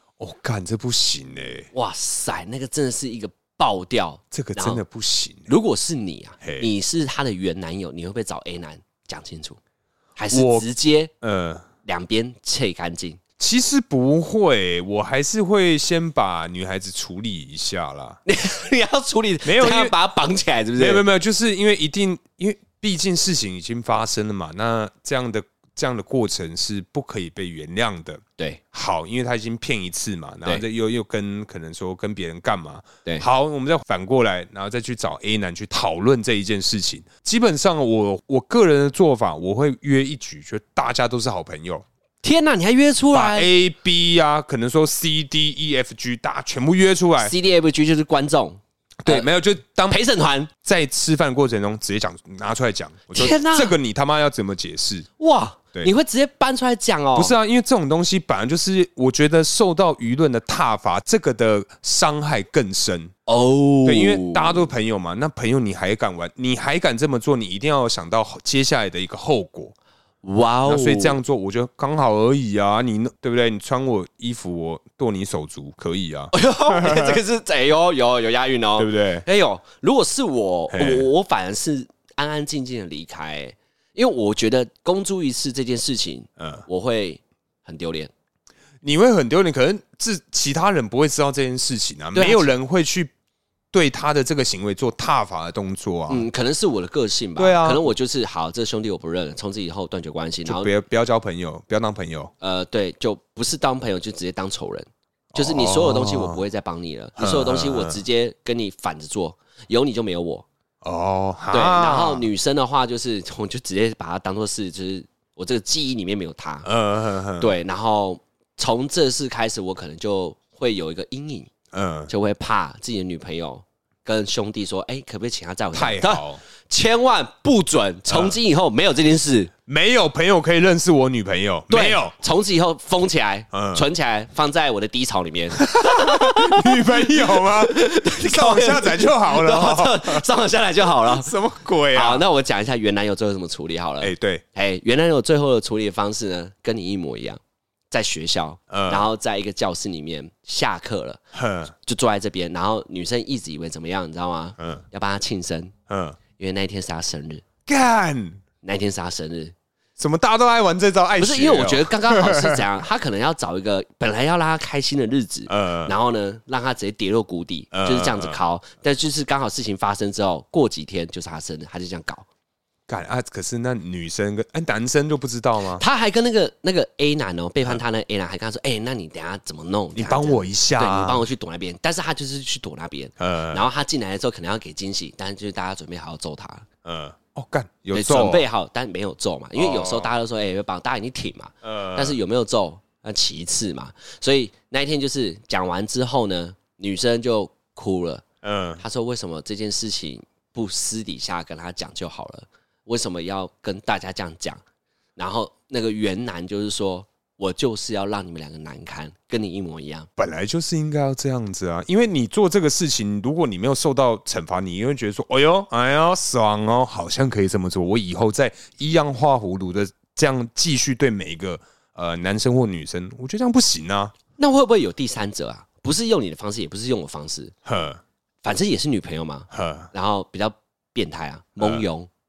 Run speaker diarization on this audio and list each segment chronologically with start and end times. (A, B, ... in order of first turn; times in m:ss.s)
0:00.2-0:01.7 A
0:01.7-0:04.8 B
0:04.3-0:05.5 A
0:05.5-0:09.6 B
0:06.4-0:06.7 A
0:10.2-0:11.1 B
0:10.3-0:10.7 A
0:11.2-0:11.7 A
0:11.8-0:13.2 B
0:13.4-0:18.2 A
0:18.3-0:21.0 B
0:19.4-0:19.9 A
0:20.8-0:28.2 A
0:28.7-0:41.8 A
0:42.2-0:43.5 B
0:43.1-0:47.3 A
0:47.2-0:49.3 B
0:49.0-0:50.0 A
0:49.9-0:50.5 B
0:50.6-0:55.1 A
0:53.1-0:53.8 B
0:55.2-0:57.3 B
0:57.2-1:03.1 A
1:03.3-1:04.7 B
1:03.9-1:09.8 A
1:10.2-1:11.2 B
1:10.7-1:17.2 A
1:16.3-1:28.1 B
1:18.8-1:19.2 A
1:20.7-1:21.1 A
1:26.4-1:26.6 A
1:28.8-1:33.1 A
1:32.2-1:32.6 B
1:33.7-1:36.3 A
1:36.1-1:40.8 B
1:37.4-1:37.9 A
1:40.5-1:42.3 A
1:42.4-1:50.5 B
1:45.3-1:46.4 A
1:47.2-1:48.0 A
1:50.8-1:52.3 A
1:51.5-1:56.7 B
1:56.6-1:57.5 A
1:57.4-2:01.5 B
2:01.7-2:02.1 A
2:02.1-2:09.5 B
2:05.7-2:06.4 A
2:08.1-2:08.4 A
2:09.7-2:12.2 A
2:11.7-2:21.3 B
2:13.5-2:13.9 A
2:15.6-2:20.3 A
2:21.1-2:22.2 A
2:21.9-2:27.4 B
2:24.0-2:24.4 A
2:27.9-2:31.2 B
2:28.7-2:29.1 A
2:31.3-2:31.7 A
2:31.8-2:35.7 B
2:35.9-2:36.2 A
2:36.4-2:37.4 B
2:37.7-2:38.4 A
2:38.6-2:39.6 B
2:40.0-2:42.6 A
2:41.2-2:52.3 B
2:45.5-2:45.9 A
2:47.7-2:48.4 A
2:52.9-2:55.8 A
2:55.7-3:06.7 B
3:00.0-3:01.2 A
3:03.2-3:03.6 A
3:06.8-3:08.5 A
3:07.9-3:18.2 B
3:09.6-3:10.1 A
3:11.6-3:12.2 A
3:18.4-3:18.8 A
3:18.8-3:24.6 B
3:25.2-3:30.1 B
3:30.2-3:44.1 A
3:44.4-3:47.5 B
3:47.6-3:48.0 A
3:48.4-3:52.1 B
3:49.5-3:49.9 A
3:51.6-3:51.8 A